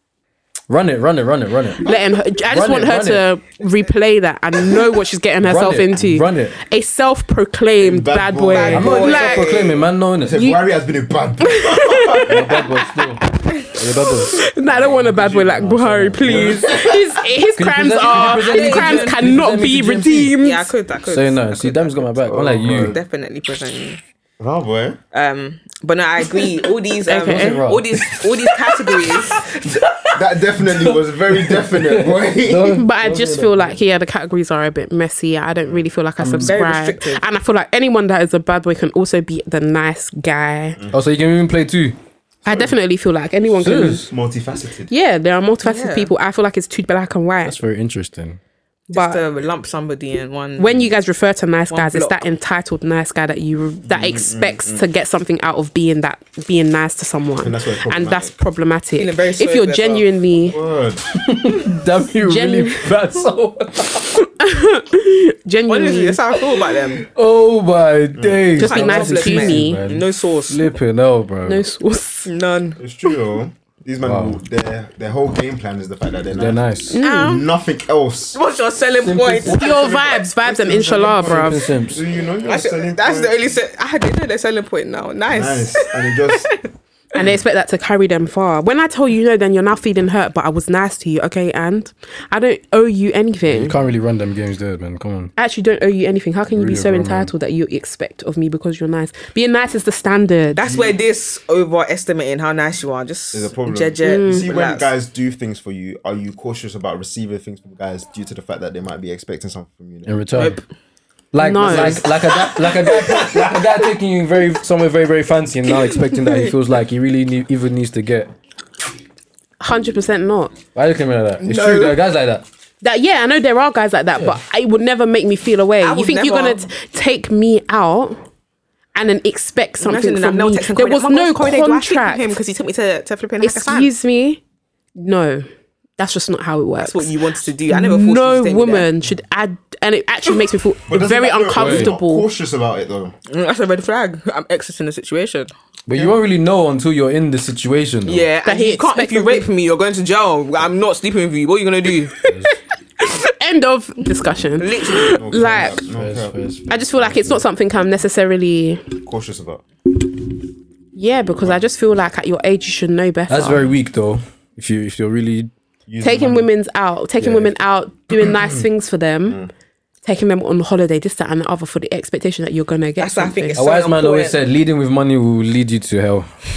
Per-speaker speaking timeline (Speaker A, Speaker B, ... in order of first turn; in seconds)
Speaker A: 0.7-1.9, 2.5-3.3, 5.4-6.6, 8.7-10.4, 12.3-14.5, 15.0-16.7, 17.6-20.4, 21.1-23.0, 27.2-28.0, 30.8-33.8, 36.2-36.5, 40.9-42.0, 43.6-44.1, 47.5-48.4, 61.3-64.1, 67.1-71.6, 74.0-74.4, 76.3-77.0, 79.0-79.7, 81.1-82.0, 93.5-95.3, 96.5-97.3, 110.1-110.6, 111.3-118.3, 120.8-122.5, 141.6-141.9, 145.9-148.3, 152.2-152.5, 155.9-157.4, 163.3-165.5, 167.2-167.5, 173.5-176.3
Speaker B: 1.8-9.6, 10.3-10.6, 11.4-13.0, 14.1-20.7, 27.1-27.6, 32.7-40.8, 42.5-44.1, 44.9-47.6, 48.9-49.2, 50.6-60.6, 62.2-62.9, 64.2-66.2, 68.6-69.8, 71.5-72.3, 76.9-77.4, 79.5-81.6, 87.1-93.8, 95.4-100.6, 104.0-104.5, 111.4-112.1, 119.6-120.5, 122.8-128.2, 128.9-132.3, 133.4-134.4, 135.0-135.5, 136.0-137.2, 137.7-142.3, 148.4-149.5, 153.0-155.8, 156.7-158.9, 160.9-163.7, 166.0-169.4, 170.0-173.6
Speaker C: 7.8-9.0, 10.2-12.6, 14.7-17.2, 22.2-23.0, 24.4-25.0, 29.6-32.9, 42.5-42.7, 44.1-44.9, 53.8-54.9, 57.4-58.3, 60.5-61.1, 68.2-68.5, 72.8-78.4, 79.5-83.5, 85.3-86.5, 100.6-101.0, 103.3-110.1, 111.6-112.0, 112.8-113.7, 140.9-143.1, 154.9-156.4, 159.0-159.6, 165.9-166.5, 168.2-168.6
Speaker D: 8.5-9.8, 18.0-19.4, 20.4-22.1, 22.7-24.0, 25.1-29.4, 36.4-37.2, 45.6-46.1, 48.9-50.9, 51.7-52.2, 59.0-60.1, 65.7-67.1, 68.6-70.7, 72.3-72.8, 77.0-77.5, 78.3-79.8, 82.4-86.6, 100.5-104.9, 110.3-110.6, 121.4-122.0, 125.8-126.7, 129.8-133.9, 136.8-138.9, 143.3-145.5, 148.1-152.2, 154.6-155.2, 173.0-174.4